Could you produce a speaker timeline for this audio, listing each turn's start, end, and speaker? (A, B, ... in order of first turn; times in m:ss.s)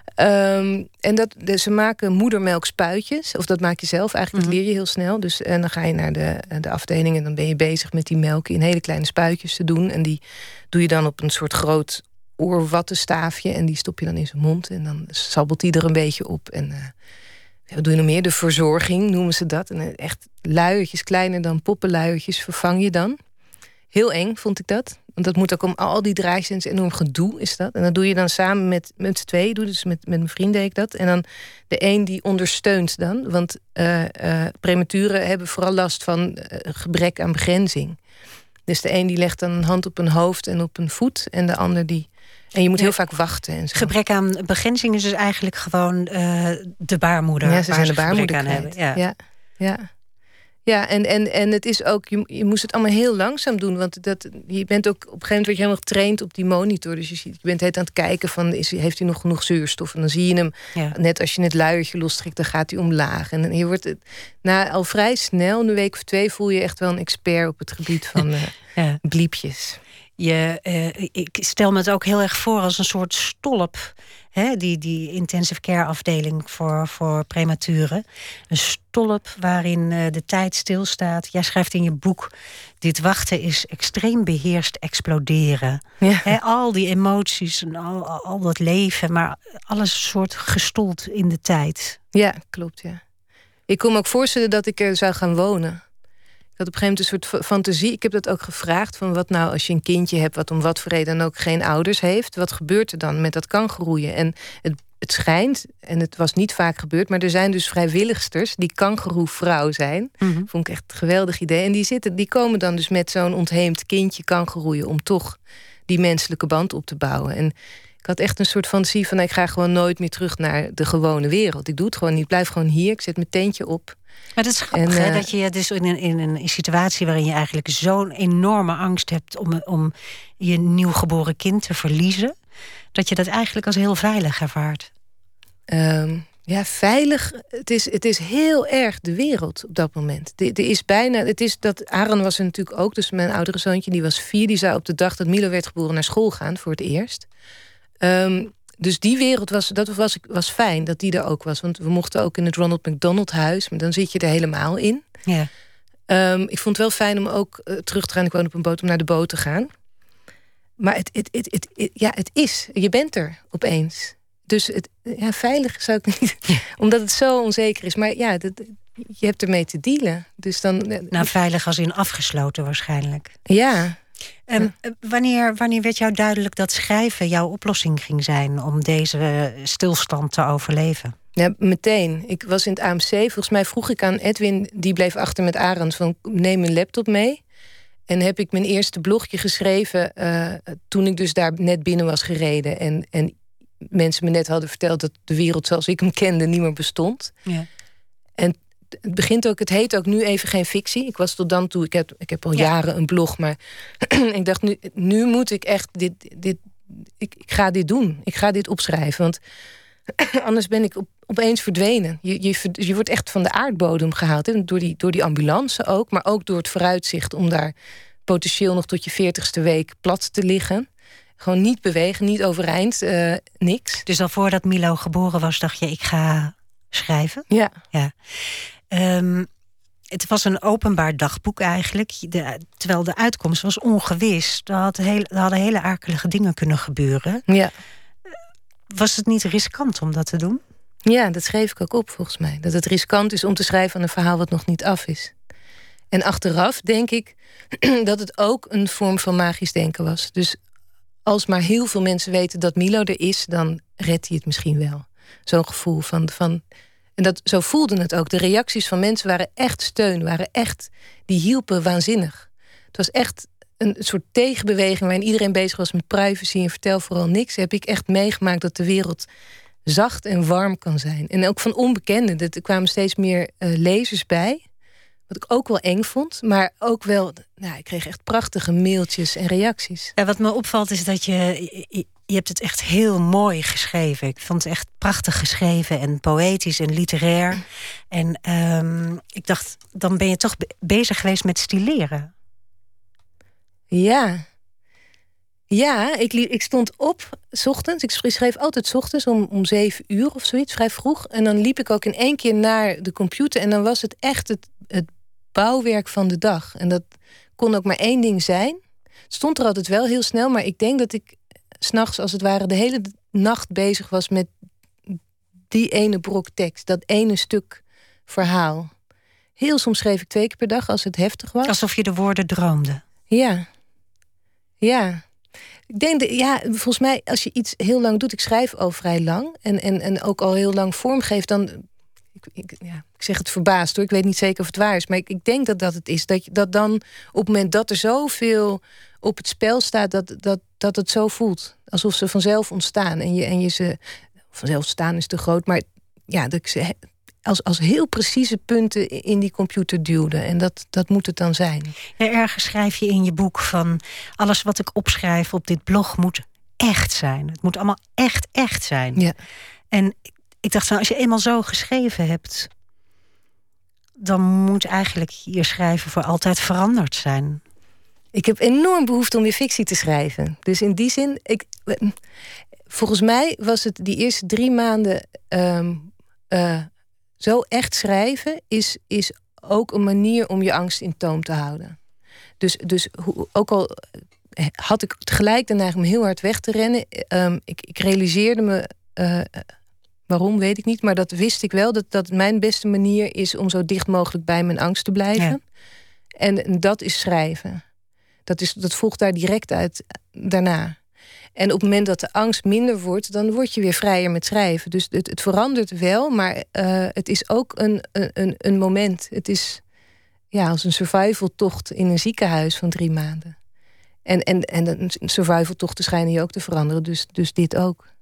0:00.2-0:10.2 A
0:10.7-0:16.9 A
0:17.7-0:23.2 A
0:23.9-0:38.0 A
0:38.7-0:43.9 A
0:43.7-0:49.0 B
0:47.4-0:49.9 A
0:50.6-1:08.5 A
1:09.0-1:09.8 A
1:10.2-1:32.0 B
1:26.0-1:26.3 A
1:32.1-1:33.0 A
1:33.7-1:35.8 A
1:36.6-2:04.0 A
1:50.2-1:50.5 B
2:04.4-2:12.3 B
2:04.7-2:05.2 A
2:12.9-2:14.9 B
2:15.7-2:27.3 A
2:28.0-2:35.0 A
2:36.1-2:39.7 A
2:40.8-2:51.3 A
2:51.1-2:53.3 B
2:53.5-2:54.0 A
2:54.5-3:01.1 B
3:01.4-3:07.4 A
3:08.1-3:17.4 A
3:18.4-3:29.4 A
3:30.2-3:37.7 A
3:38.2-3:40.9 A
3:41.4-3:44.0 A
3:44.0-3:49.5 B
3:50.1-3:57.4 B
3:58.9-4:00.6 B
4:01.0-4:05.3 A
4:06.1-4:10.6 A
4:11.2-4:16.6 A
4:17.2-4:29.3 A
4:29.9-4:34.6 A
4:35.3-4:40.1 A
4:40.2-4:52.3 B
4:53.9-4:54.4 A
4:55.7-5:07.0 A
5:07.6-5:08.8 A
5:09.3-5:14.5 A
5:15.7-5:18.9 A
5:19.6-5:21.7 A
5:21.6-5:23.0 B
5:23.3-5:23.7 A
5:24.8-5:25.2 A
5:25.9-5:31.9 A
5:32.4-5:44.0 A
5:44.5-5:51.9 A
5:52.2-5:59.2 B
5:59.9-6:02.7 B
6:04.2-6:07.6 B
6:08.3-6:12.1 A
6:12.9-6:16.9 A
6:17.4-6:22.0 A
6:22.6-6:24.0 A
6:24.6-6:29.7 A
6:30.3-6:35.6 A
6:36.4-6:37.8 A
6:38.5-6:41.0 A
6:41.6-6:49.8 A
6:50.5-6:53.6 A
6:54.2-6:58.0 A